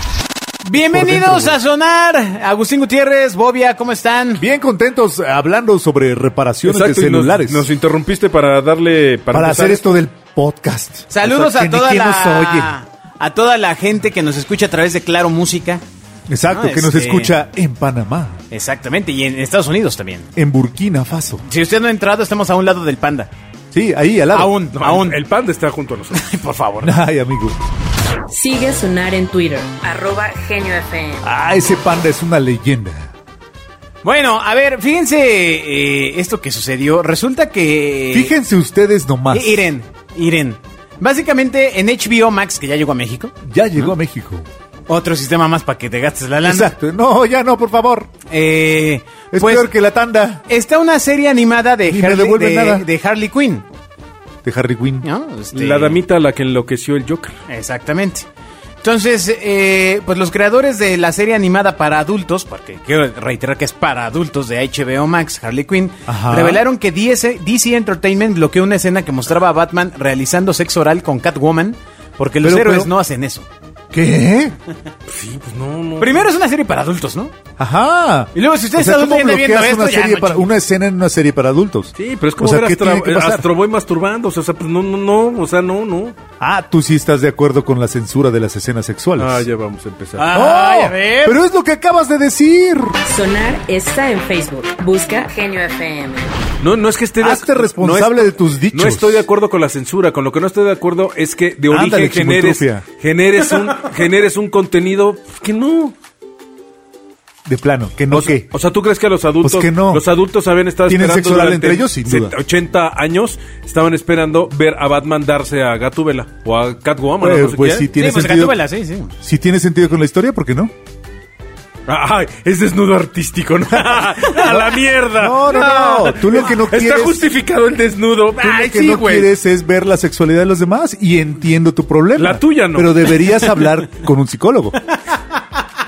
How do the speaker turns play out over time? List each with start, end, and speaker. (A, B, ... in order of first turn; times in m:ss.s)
0:00.6-0:04.4 A
0:00.7-0:01.6 B
0:04.4-0:07.6 B
0:06.6-0:10.0 C
0:09.3-0:12.7 B
0:11.1-0:15.8 A
0:16.3-0:18.4 B
0:16.5-0:17.3 A
0:18.5-0:20.3 A
0:20.4-0:21.4 B
0:21.4-0:23.3 A
0:23.7-0:24.6 B
0:24.3-0:25.2 A
0:24.7-0:26.3 C
0:26.1-0:27.0 A
0:26.8-0:27.6 B
0:28.3-0:31.3 D
0:31.2-0:33.1 B
0:34.0-0:38.3 A
0:38.1-0:39.7 B
0:39.3-0:43.9 A
0:43.4-0:44.4 B
0:44.9-0:46.7 A
0:46.4-0:48.1 B
0:48.3-0:49.7 A
0:49.3-0:50.4 B
0:50.5-0:53.6 A
0:51.9-0:52.9 B
0:54.4-0:55.1 B
0:55.0-0:56.0 A
0:55.5-0:57.4 C
0:57.5-0:58.3 A
0:58.8-1:13.5 A
1:06.1-1:06.6 B
1:12.4-1:12.9 B
1:13.9-1:14.5 B
1:15.1-1:16.3 C
1:16.0-1:17.3 A
1:17.6-1:23.4 B
1:18.3-1:20.5 A
1:22.0-1:26.2 C
1:26.4-1:29.4 B
1:29.2-1:30.3 C
1:30.2-1:31.4 A
1:30.3-1:33.0 B
1:33.0-1:36.3 D
1:36.6-1:45.9 C
1:37.2-1:39.2 B
1:41.7-1:42.8 B
1:47.4-1:48.5 B
1:48.1-1:57.9 C
1:49.4-1:50.1 B
1:50.8-1:52.4 B
1:57.2-1:58.6 B
1:57.9-1:59.1 A
1:59.2-2:00.7 B
2:01.9-2:09.3 C
2:04.3-2:07.2 B
2:05.5-2:06.0 A
2:08.4-2:14.8 B
2:12.2-2:13.1 C
2:15.0-2:15.4 A